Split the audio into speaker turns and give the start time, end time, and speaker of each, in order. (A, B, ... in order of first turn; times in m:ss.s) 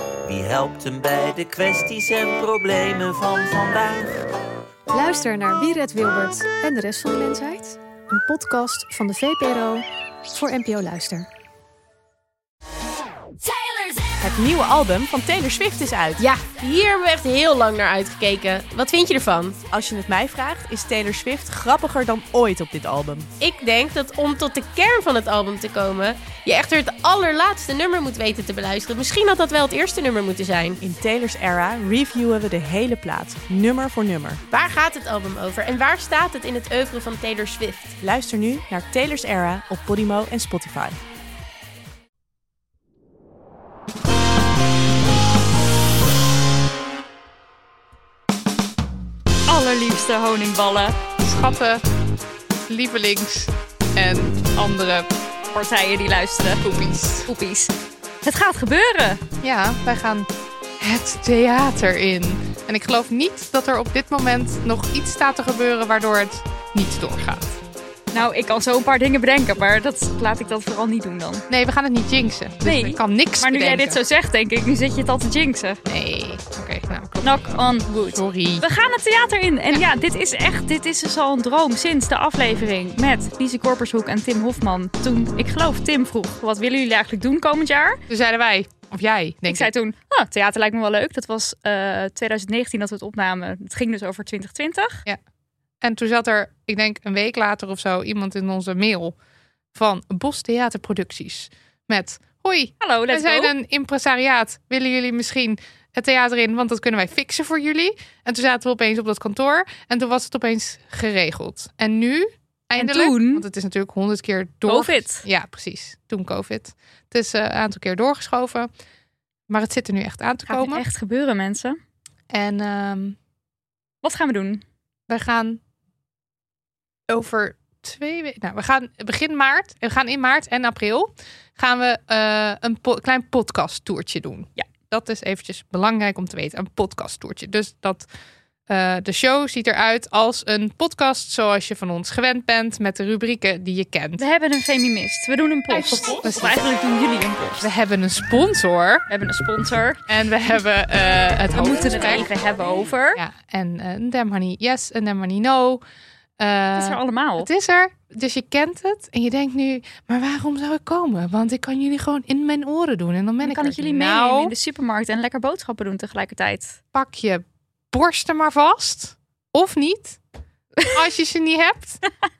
0:00.2-0:04.2 A
0:04.9-0:11.3 B
0:14.2-0:16.2 C
0:16.2-0:19.6 D
0:19.7-0:23.3 C
0:23.4-0:30.8 D
0:30.8-0:34.4 C
0:34.5-0:38.0 D
0:38.0-0:41.0 C
0:49.5-0:51.0 E
0:51.2-0:51.8 F
0:52.7-0:55.1 F
0:55.5-0:56.6 E
0:56.6-0:57.3 F
0:57.3-0:59.2 E
0:59.4-1:07.6 F
1:08.1-1:11.4 E
1:11.5-1:14.0 F
1:12.6-1:15.8 E
1:15.8-1:18.6 F
1:17.2-1:28.0 E
1:28.1-1:29.7 F
1:29.5-1:35.0 E
1:35.8-1:39.1 F
1:39.7-1:58.7 F
1:42.8-1:43.5 E
1:52.8-1:53.4 E
1:54.7-1:55.2 E
1:59.5-2:00.8 F
2:00.5-2:01.8 E
2:02.3-2:03.2 F
2:04.0-2:04.6 E
2:05.1-2:05.6 F
2:07.1-2:18.1 F
2:18.7-2:24.2 F
2:24.2-2:27.7 E
2:25.7-2:26.6 F
2:27.6-2:29.0 F
2:29.1-2:30.0 E
2:30.1-2:32.3 F
2:31.5-2:33.2 E
2:33.2-2:35.8 F
2:36.4-2:44.5 F
2:36.7-2:37.5 E
2:43.4-2:46.8 E
2:46.9-2:50.2 F
2:50.8-2:52.0 F